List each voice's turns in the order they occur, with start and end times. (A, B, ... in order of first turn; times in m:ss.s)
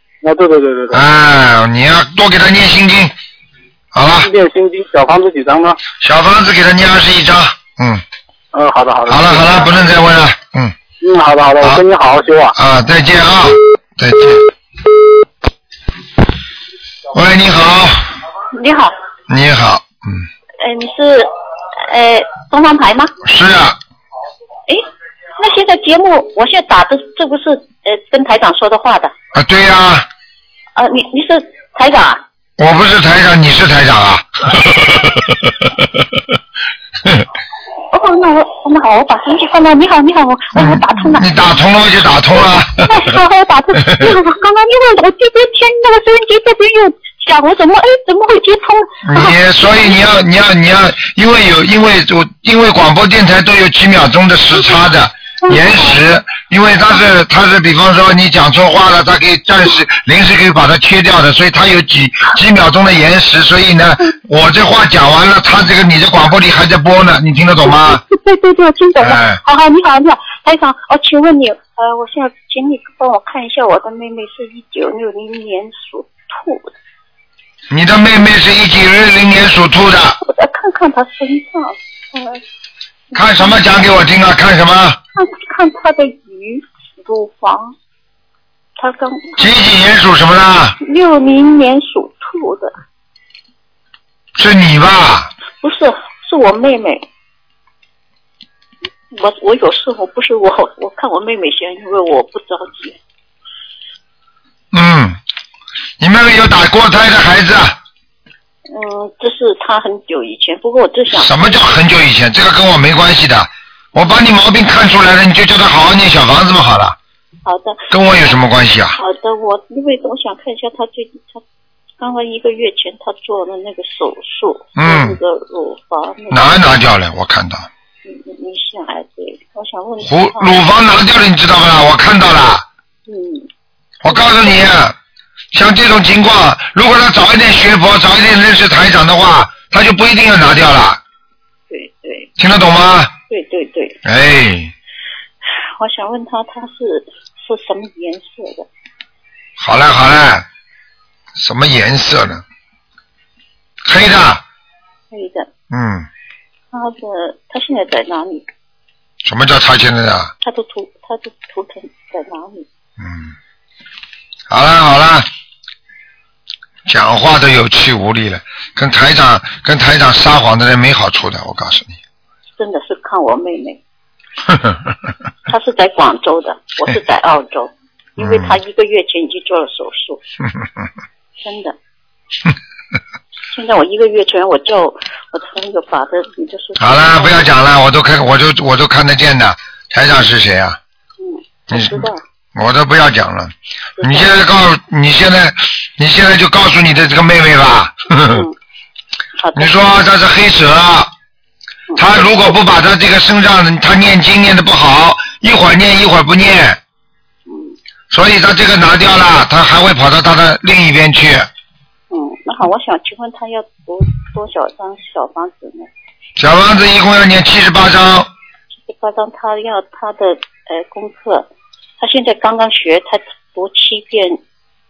0:00.2-0:01.0 A
0:00.9-0:03.1 B
0:03.9-0:04.3 B
0:04.2-0:05.8 A
0:06.0-0:08.0 B
0:08.5-0:09.6 A
0:09.1-0:10.8 B
0:11.0-0:12.6 A
0:12.6-0:14.4 B
0:17.1-0:18.1 B
0:18.5-0:18.9 C
0:19.3-0:20.2 B
0:20.6-0:21.3 C
0:21.8-0:23.1 C
0:23.2-0:23.8 B
0:25.4-0:29.1 C
0:29.3-0:30.1 B
0:30.8-0:32.2 C
0:32.6-0:35.6 B
0:37.9-0:41.3 C
0:40.5-0:43.1 B
0:42.4-0:49.4 C
0:43.8-0:44.1 B
0:49.0-1:08.0 B
0:55.4-0:56.0 C
1:07.6-1:16.7 C
1:09.0-1:09.4 B
1:17.7-1:20.2 B
1:20.2-1:22.4 C
1:23.1-1:23.6 C
1:23.1-1:25.0 B
1:25.2-1:27.8 C
1:28.8-1:29.5 C
1:29.4-1:30.8 B
1:30.8-1:32.8 C
1:34.4-1:35.3 B
1:35.6-1:37.0 C
1:39.1-1:43.0 C
1:44.7-1:45.2 B
1:46.0-1:47.8 B
1:48.7-1:51.8 C
1:51.1-1:57.0 B
1:57.4-1:57.9 C
1:57.9-1:59.0 B
1:59.0-2:01.4 C
2:02.0-2:06.6 C
2:04.8-2:05.2 B
2:06.3-2:07.7 B
2:08.0-2:10.6 C
2:10.0-2:12.6 B
2:13.1-2:13.5 C
2:14.0-2:15.0 B
2:14.1-2:14.6 C
2:15.5-2:21.0 B
2:21.7-2:22.3 C
2:22.4-2:23.1 B
2:23.3-2:24.0 C
2:24.0-2:24.7 B
2:25.8-2:28.7 C
2:29.6-2:30.4 B
2:31.4-2:32.4 B
2:33.8-2:34.4 B
2:35.1-2:35.5 C
2:35.7-2:36.1 B
2:36.7-2:38.4 C
2:39.2-2:40.3 B
2:40.4-2:42.7 C
2:43.0-2:43.3 B
2:44.5-2:45.3 B
2:46.9-2:52.0 B
2:52.6-2:53.8 C
2:54.5-2:54.8 B
2:55.5-3:00.2 C
2:58.2-2:58.5 B
3:00.4-3:00.9 B
3:01.4-3:01.8 C
3:03.5-3:07.5 C
3:06.8-3:10.8 B
3:11.2-3:12.2 C
3:11.7-3:18.4 B
3:14.0-3:14.3 C
3:19.4-3:19.8 C
3:19.6-3:21.1 B
3:21.9-3:22.2 C
3:22.0-3:26.8 B
3:27.5-3:27.8 C
3:28.1-3:31.5 B
3:32.1-3:35.9 C
3:36.4-3:38.3 B
3:38.9-3:41.5 C
3:42.0-3:44.4 C